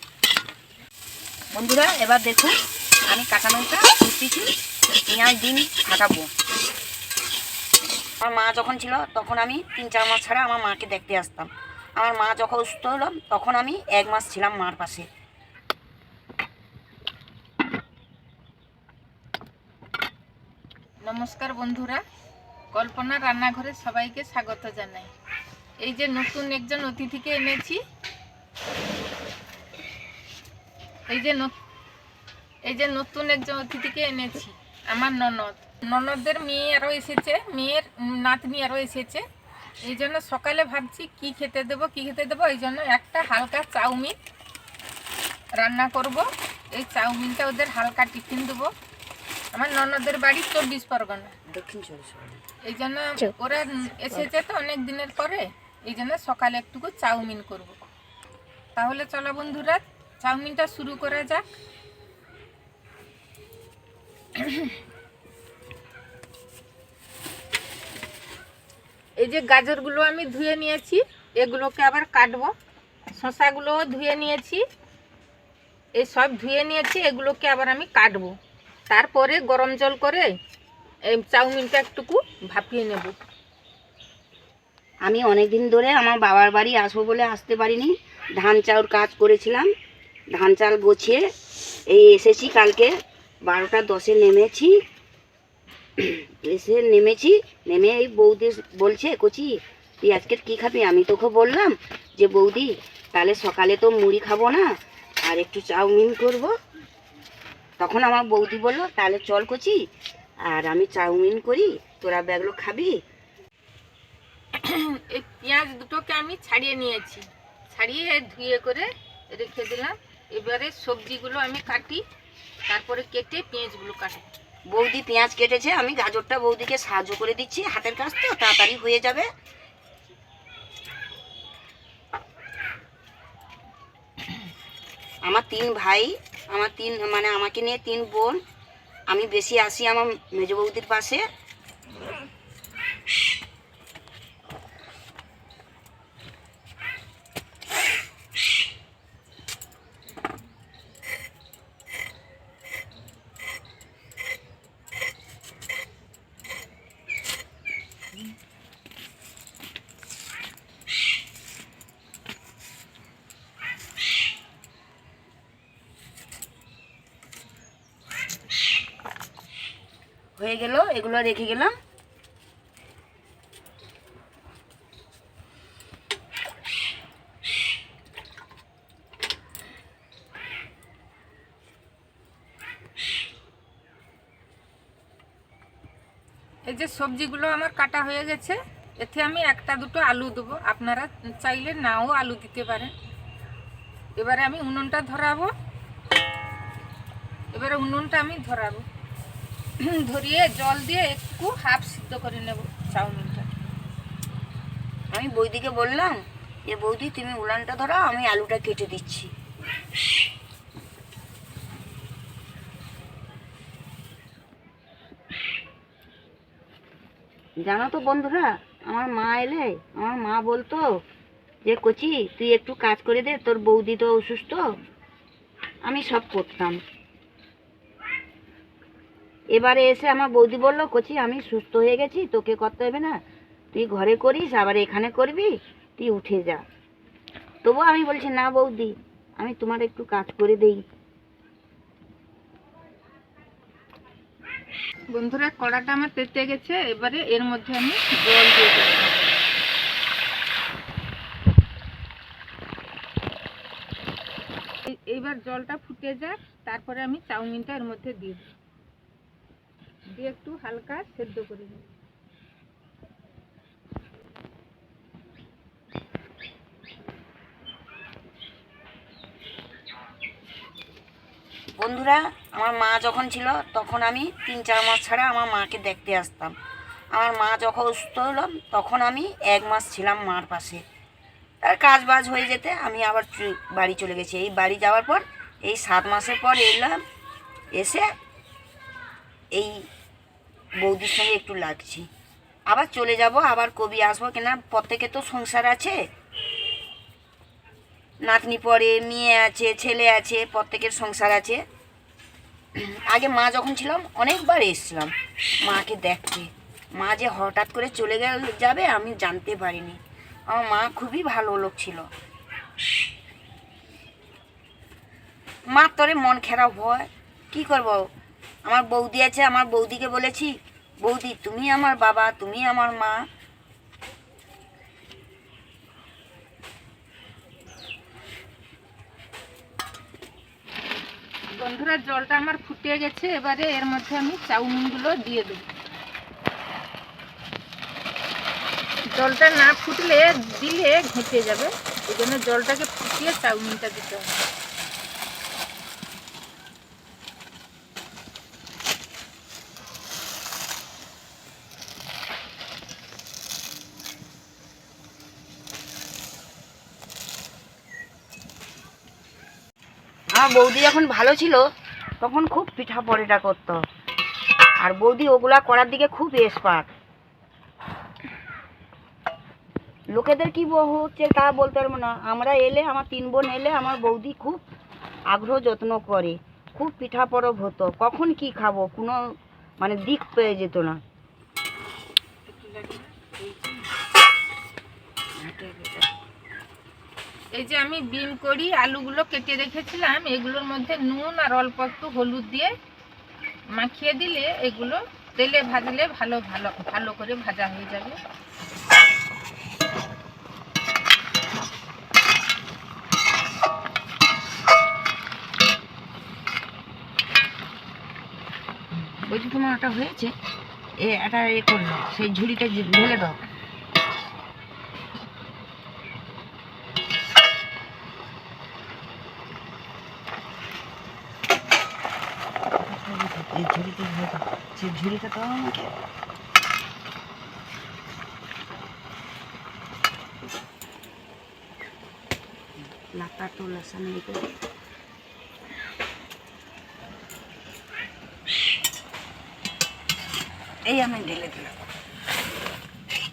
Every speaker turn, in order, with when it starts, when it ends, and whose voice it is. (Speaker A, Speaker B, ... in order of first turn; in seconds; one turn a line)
Speaker A: 1.5-2.5
Speaker A: 3.1-4.5
Speaker A: 5.1-6.3
Speaker A: 8.2-15.1
Speaker B: 21.0-22.0
Speaker B: 22.7-25.1
Speaker B: 25.8-27.8
Speaker B: 31.1-31.5
Speaker B: 32.7-39.2
Speaker B: 39.8-44.2
Speaker B: 45.6-48.7
Speaker B: 49.5-51.3
Speaker A: 51.5-52.4
Speaker B: 52.6-57.8
Speaker B: 58.8-61.4
Speaker B: 64.4-64.7
Speaker B: 69.2-72.5
Speaker B: 73.1-74.6
Speaker B: 76.0-78.3
Speaker B: 78.9-80.3
Speaker B: 81.1-83.1
Speaker A: 85.0-89.7
Speaker A: 90.3-91.2
Speaker A: 91.9-92.9
Speaker A: 93.5-94.8
Speaker A: 96.0-104.7
Speaker A: 105.2-106.5
Speaker A: 107.8-109.8
Speaker A: 110.5-113.0
Speaker B: 114.6-122.0
Speaker B: 122.7-124.3
Speaker A: 124.7-129.3
Speaker A: 135.2-138.4
Speaker A: 139.1-141.2
Speaker A: 170.4-171.7
Speaker B: 186.7-192.9
Speaker B: 194.2-195.5
Speaker B: 197.5-198.8
Speaker B: 199.8-203.5
Speaker A: 205.1-209.3
Speaker A: 217.6-220.8
Speaker A: 221.7-224.7
Speaker A: 225.8-226.8
Speaker A: 229.6-233.2
Speaker A: 233.7-236.6
Speaker A: 237.6-240.8
Speaker B: 245.1-249.1
Speaker B: 254.8-258.5
Speaker B: 260.1-261.9
Speaker A: 271.8-276.6
Speaker A: 277.1-280.8
Speaker A: 281.6-287.0
Speaker A: 287.7-288.1
Speaker A: 289.5-289.9
Speaker A: 290.8-292.1
Speaker A: 292.7-296.0
Speaker A: 298.2-301.6
Speaker A: 302.8-305.1
Speaker A: 305.7-310.0
Speaker A: 310.5-312.1
Speaker A: 315.7-318.0
Speaker A: 318.7-323.2
Speaker B: 331.5-335.7
Speaker B: 339.1-344.3
Speaker A: 360.4-361.6
Speaker A: 362.2-363.8
Speaker A: 364.8-366.9
Speaker A: 370.1-374.6
Speaker A: 375.3-379.2
Speaker A: 379.8-381.0
Speaker B: 382.4-383.9
Speaker A: 385.4-386.1
Speaker B: 387.5-392.7
Speaker B: 393.7-398.2
Speaker A: 409.2-410.3
Speaker A: 411.0-413.4
Speaker A: 422.8-425.9
Speaker A: 432.8-434.4
Speaker A: 440.9-441.8